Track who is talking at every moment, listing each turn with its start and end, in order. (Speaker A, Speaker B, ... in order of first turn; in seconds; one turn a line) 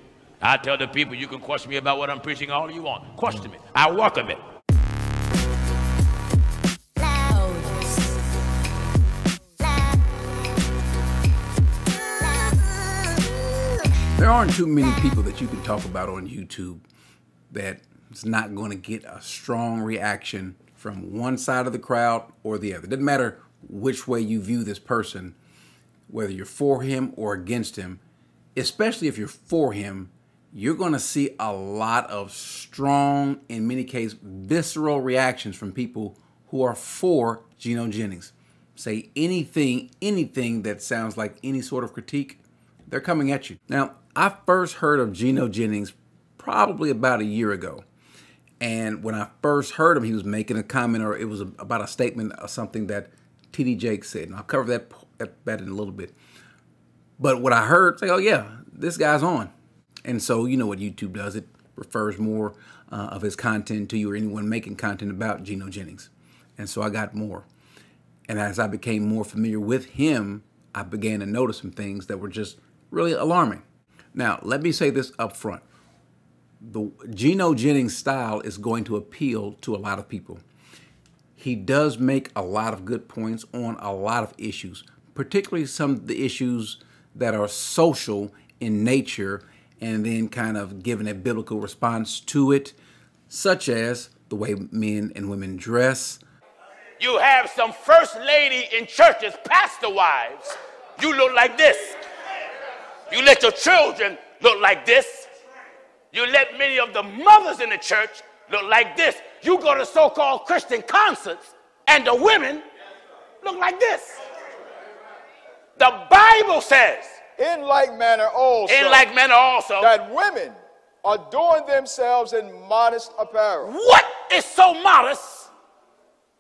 Speaker A: 0.4-4.4
Speaker B: 14.2-16.8
Speaker B: 17.5-25.4
Speaker B: 26.1-28.0
Speaker B: 28.6-47.8
Speaker B: 48.6-56.1
Speaker B: 57.2-59.5
Speaker B: 60.0-67.5
Speaker B: 68.3-75.6
Speaker B: 76.6-80.4
Speaker B: 81.4-92.8
Speaker B: 93.3-96.2
Speaker A: 97.0-102.0
Speaker A: 103.1-105.3
Speaker A: 106.1-112.7
Speaker A: 113.4-114.2
Speaker A: 115.8-117.2
Speaker C: 117.4-119.1
Speaker A: 118.7-119.9
Speaker C: 119.8-123.7
Speaker A: 123.6-125.5